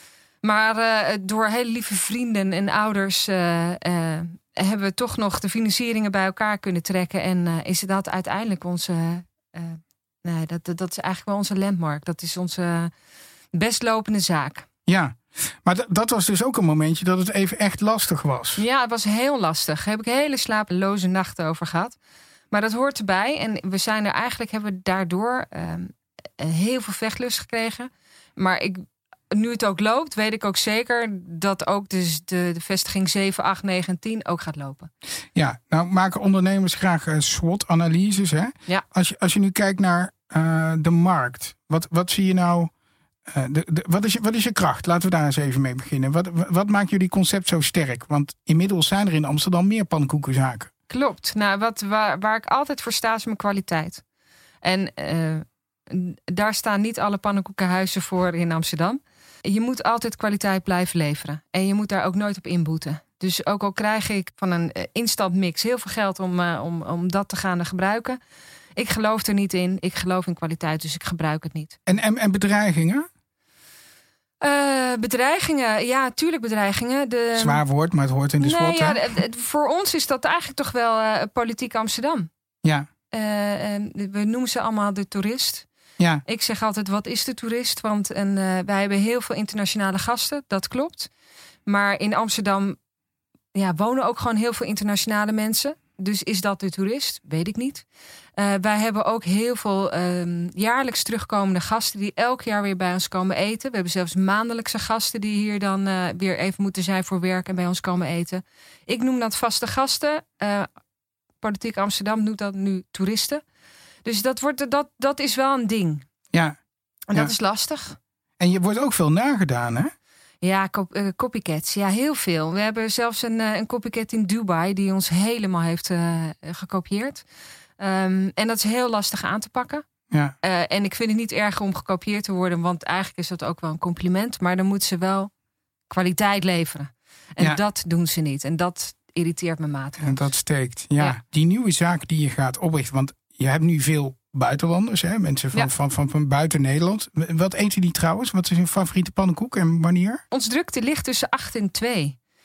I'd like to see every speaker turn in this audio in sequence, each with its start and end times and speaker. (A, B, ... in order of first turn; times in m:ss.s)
0:00.4-0:12.9 A
0:13.5-0:14.7 A
0:14.9-0:18.6 B
0:18.6-0:22.0 A
0:22.5-0:34.9 A
0:35.4-0:42.7 B
0:43.3-0:50.7 B
0:50.9-0:54.0 A
0:54.6-1:08.2 A
1:08.8-1:11.8 A
1:11.9-1:13.1 B
1:14.4-1:17.6 A
1:17.4-1:19.0 B
1:18.4-1:22.3 A
1:23.1-1:25.7 A
1:26.3-1:31.1 A
1:31.7-1:32.8 A
1:33.6-1:37.8 A
1:38.4-1:50.7 A
1:51.4-1:53.4 A
1:54.0-1:56.1 A
1:56.3-1:56.6 B
1:57.1-1:58.0 A
1:58.4-1:59.9 B
2:00.4-2:07.2 A
2:07.8-2:09.8 A
2:10.4-2:15.3 A
2:15.9-2:20.3 A
2:20.0-2:30.2 B
2:30.3-2:32.2 A